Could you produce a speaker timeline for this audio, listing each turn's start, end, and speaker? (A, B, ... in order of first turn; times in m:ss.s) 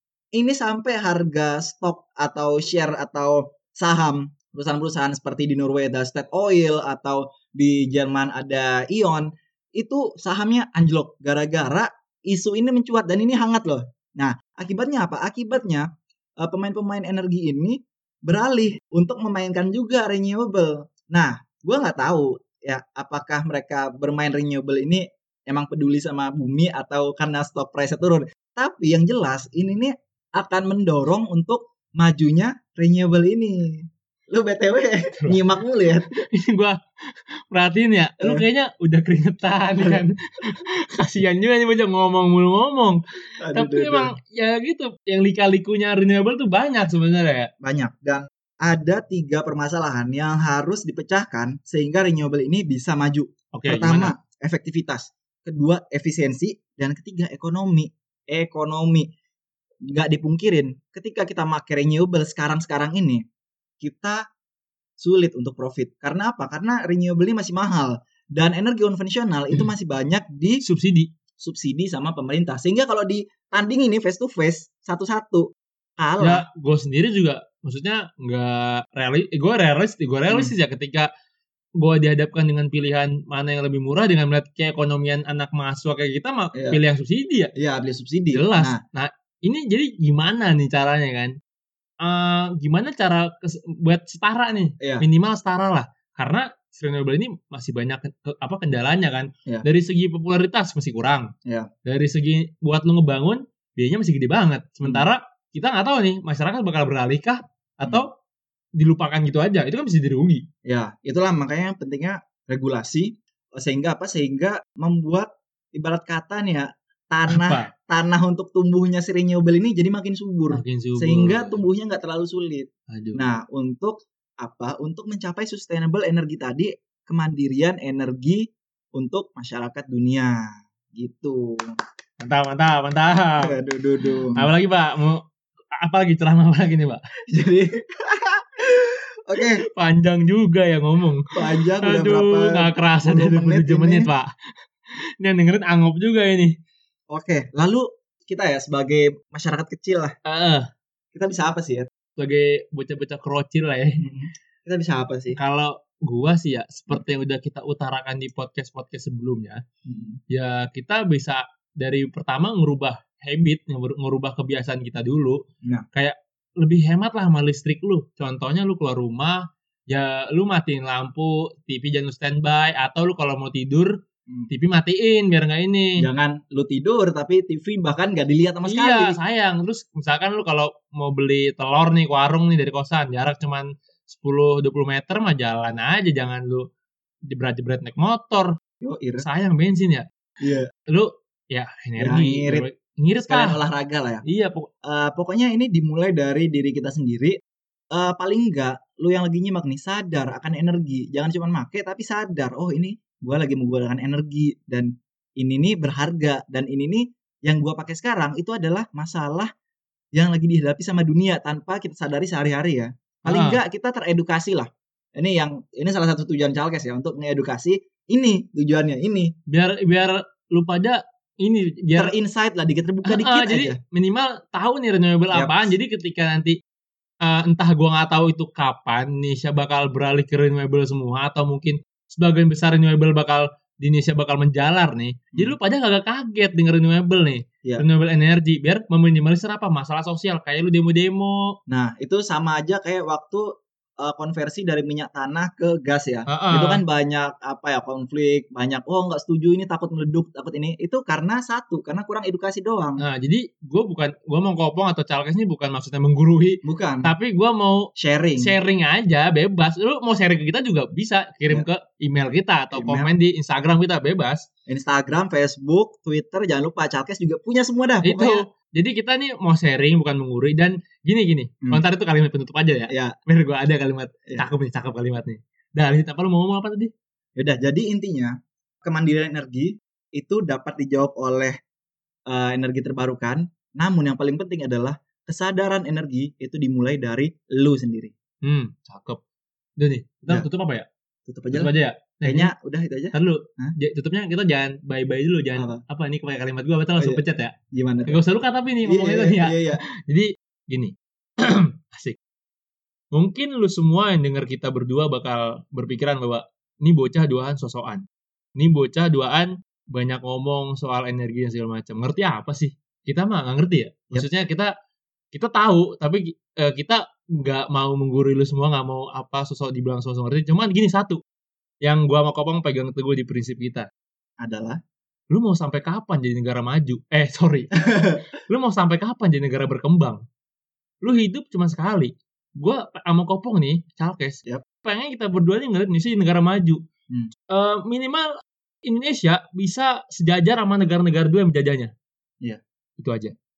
0:00.4-0:15.9 A
0:16.4-0:36.2 A
0:35.2-0:35.4 B
0:36.1-0:36.8 B
0:37.5-0:43.0 B
0:38.2-0:38.4 A
0:43.4-0:44.1 A
0:43.5-0:47.5 B
0:47.6-0:59.1 A
0:53.5-0:54.1 B
0:59.9-1:03.2 A
1:03.8-1:04.2 A
1:05.0-1:10.6 A
1:10.6-1:11.1 B
1:11.4-1:15.5 A
1:16.0-1:16.4 A
1:16.2-1:21.1 B
1:21.8-1:27.5 B
1:27.6-1:28.8 A
1:28.3-1:31.4 B
1:32.0-1:41.3 B
1:41.9-1:48.1 B
1:48.8-1:50.5 B
1:50.6-2:11.8 A
1:57.3-1:57.7 B
2:00.5-2:01.6 B
2:02.9-2:03.2 B
2:12.2-2:13.6 B
2:13.4-2:14.5 A
2:14.2-2:15.2 B
2:15.8-2:17.0 B
2:17.3-2:19.6 A
2:19.4-2:24.3 B
2:21.3-2:24.1 A
2:25.2-2:26.5 B
2:27.1-2:30.2 A
2:30.3-2:30.7 B
2:31.1-2:31.9 A
2:32.2-2:34.0 B
2:34.0-2:35.4 A
2:35.3-2:39.6 B
2:39.8-2:40.2 A
2:40.3-2:45.4 B
2:45.9-2:53.9 B
2:54.5-2:56.0 B
2:56.0-2:59.2 A
2:58.7-3:06.7 B
3:07.3-3:08.5 B
3:08.8-3:09.2 A
3:09.2-3:10.0 B
3:10.4-3:10.7 A
3:10.9-3:13.6 B
3:12.0-3:12.7 A
3:13.2-3:14.2 A
3:14.3-3:14.7 B
3:14.8-3:17.4 A
3:17.9-3:29.5 A
3:30.2-3:39.3 A
3:33.3-3:33.6 B
3:39.5-3:42.1 B
3:42.0-3:43.8 A
3:43.0-3:46.6 B
3:45.3-3:45.7 A
3:47.2-4:01.6 B
4:01.7-4:03.5 A
4:04.0-4:13.0 A
4:06.3-4:06.8 B
4:13.0-4:24.5 B
4:16.6-4:17.1 A
4:18.0-4:18.5 A
4:22.7-4:23.1 A
4:24.7-4:28.4 A
4:28.0-4:36.9 B
4:32.9-4:33.2 A
4:37.4-4:41.6 A
4:42.3-4:48.1 A
4:48.4-4:49.2 B
4:49.8-4:50.9 B
4:51.3-4:51.7 A
4:51.5-4:52.5 B
4:52.2-4:53.7 A
4:53.1-4:57.5 B
4:57.7-4:58.2 A
4:58.1-5:02.2 B
4:58.8-4:59.8 A
5:03.1-5:08.0 B
5:08.6-5:14.7 B
5:15.3-5:21.2 B
5:21.8-5:23.9 B
5:24.4-5:24.8 A
5:25.3-5:27.7 B
5:27.8-5:28.2 A
5:28.5-5:30.2 B
5:31.0-5:36.8 B
5:37.5-5:38.3 B
5:38.9-5:41.9 B
5:43.0-5:43.3 B